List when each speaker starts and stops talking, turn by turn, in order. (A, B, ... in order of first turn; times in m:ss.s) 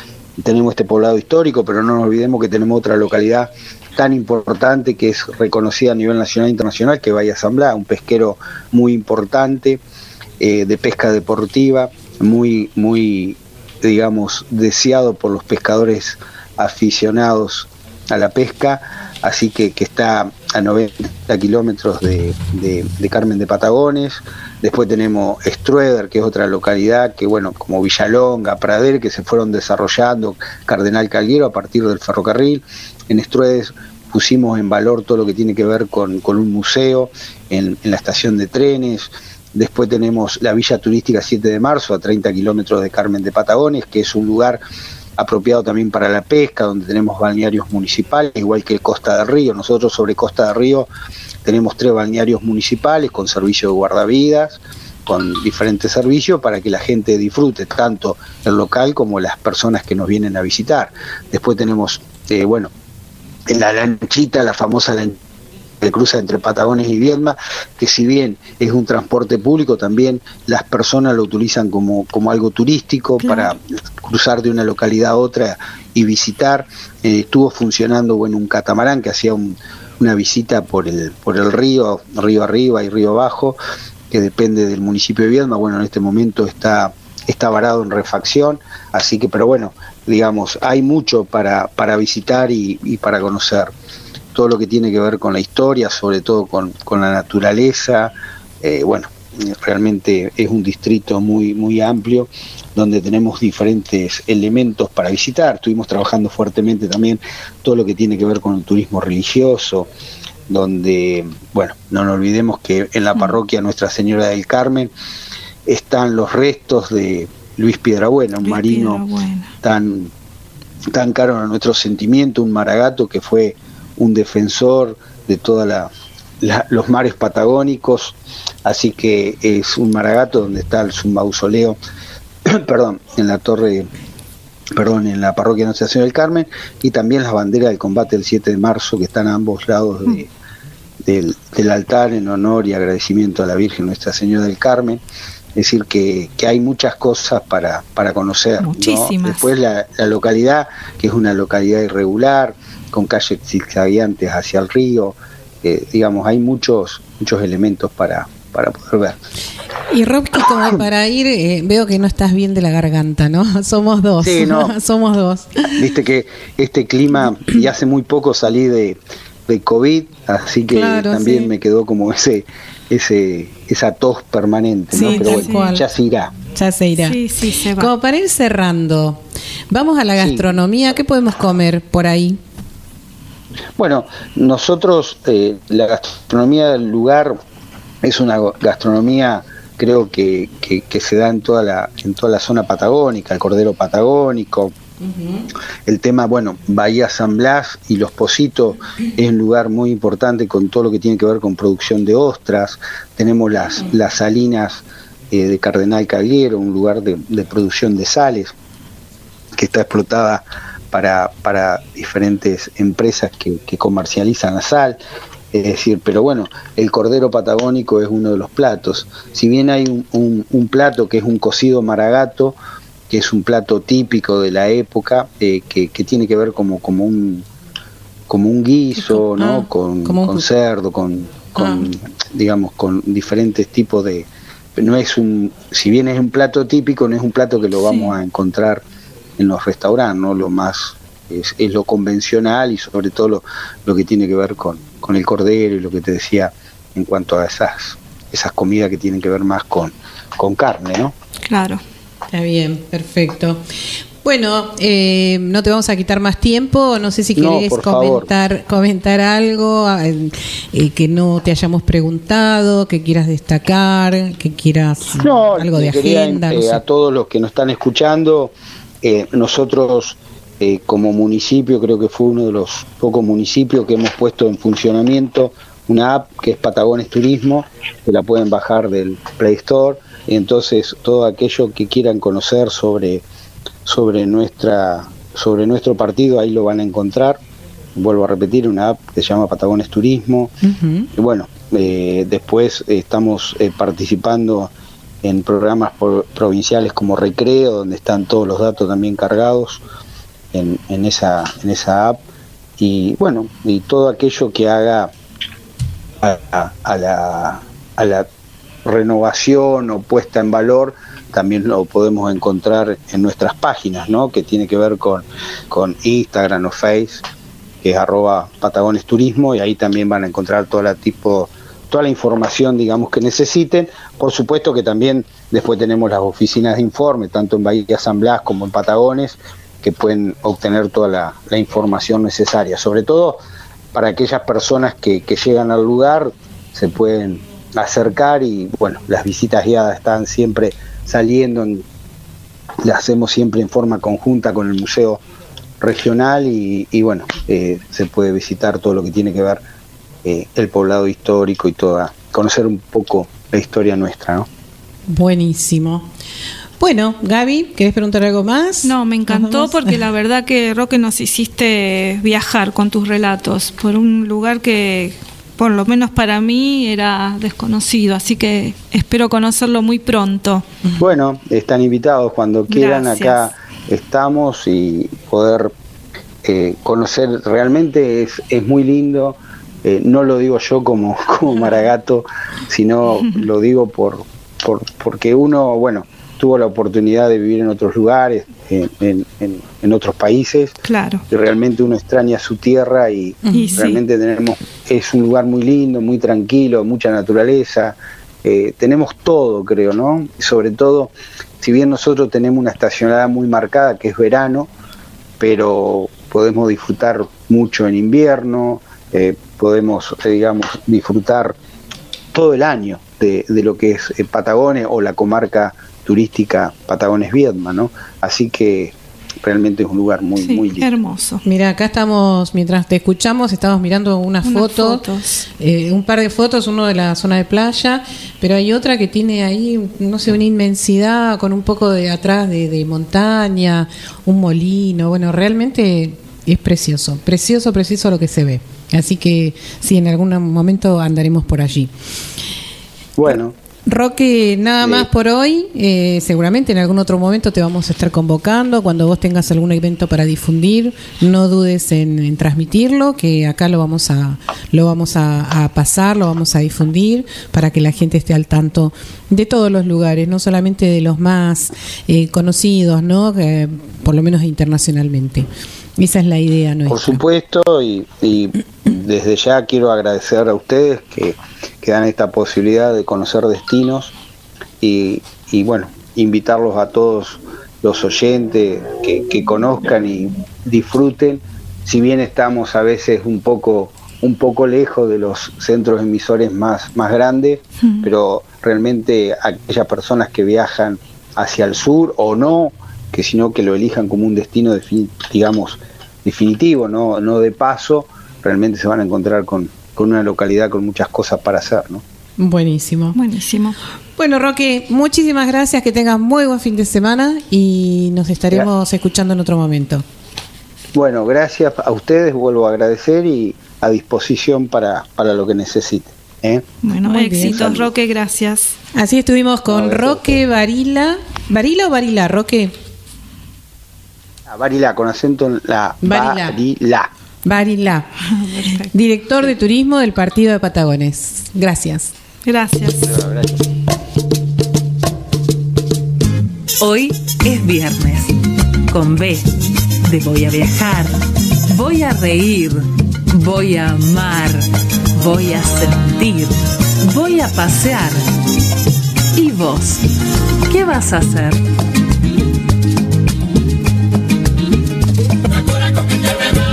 0:00.4-0:09.8 A
0:10.4-0:44.6 A
0:45.2-0:50.9 A
0:51.4-1:02.7 A
1:03.5-1:05.2 A
1:05.8-1:23.6 A
1:13.2-1:13.5 B
1:24.1-1:33.7 A
1:34.3-1:49.9 A
1:50.5-1:54.9 A
1:55.7-1:59.0 A
1:58.4-1:59.5 B
1:59.6-2:00.1 A
2:00.9-2:11.8 A
2:12.4-2:13.9 A
2:14.8-2:20.3 A
2:21.0-2:25.0 A
2:25.6-2:39.2 A
2:28.6-2:29.5 B
2:39.9-2:45.8 C
2:44.2-2:44.8 A
2:45.8-2:56.3 A
2:50.7-2:51.5 C
2:54.9-2:55.8 C
2:55.0-2:55.7 B
2:56.5-2:57.2 C
2:57.0-2:57.9 B
2:57.8-3:02.4 C
3:00.2-3:00.5 A
3:03.8-3:07.4 A
3:08.0-3:14.8 A
3:15.0-3:15.5 C
3:15.9-3:28.6 A
3:29.6-3:35.0 A
3:35.5-3:42.6 A
3:43.1-3:47.5 A
3:48.3-3:58.8 A
3:49.0-3:50.5 C
3:51.6-3:51.9 C
3:57.9-3:58.2 B
3:59.4-4:11.2 A
4:11.5-4:11.8 B
4:12.3-4:13.6 C
4:14.2-4:26.8 C
4:17.4-4:18.3 A
4:25.2-4:43.2 A
4:43.9-4:47.4 A
4:48.0-4:50.6 A
4:50.6-4:51.1 C
4:51.1-4:54.7 A
4:55.2-4:59.8 A
5:00.5-5:02.2 A
5:02.8-5:05.1 A
5:06.2-5:08.3 A
5:08.8-5:17.3 A
5:17.8-5:33.4 A
5:33.9-5:41.9 A
5:42.8-5:45.2 A
5:45.8-5:49.6 A
5:50.2-5:54.5 A
5:55.1-5:56.1 C
5:56.8-6:00.0 C
5:58.8-6:10.7 B
6:11.0-6:15.8 A
6:12.7-6:13.5 B
6:16.4-6:30.8 A
6:30.9-6:31.2 B
6:31.3-6:44.7 A
6:33.5-6:33.8 C
6:33.5-6:34.0 B
6:45.4-6:51.6 A
6:52.3-7:00.9 A
7:00.4-7:01.4 B
7:01.4-7:05.0 C
7:04.4-7:05.4 B
7:05.6-7:21.9 C
7:23.2-7:23.6 A
7:23.9-7:45.5 C
7:24.8-7:25.1 A
7:46.0-7:47.2 C
7:46.9-7:54.2 A
7:54.8-8:22.0 A
8:22.4-8:23.2 C
8:23.2-8:23.8 B
8:24.2-8:30.0 C
8:31.0-8:36.7 A
8:36.8-8:38.8 B
8:37.1-8:37.6 C
8:37.4-8:37.9 A
8:39.0-8:42.7 C
8:39.7-8:40.4 A
8:44.5-8:47.1 A
8:46.0-8:46.6 C
8:47.4-8:48.1 C
8:48.2-8:48.9 B
8:48.7-8:52.1 C
8:52.4-8:53.2 B
8:53.0-8:53.6 A
8:56.8-8:58.3 D
8:58.9-8:59.5 D
9:00.0-9:01.1 D
9:01.7-9:08.2 D
9:09.3-9:10.0 D
9:10.7-9:11.6 D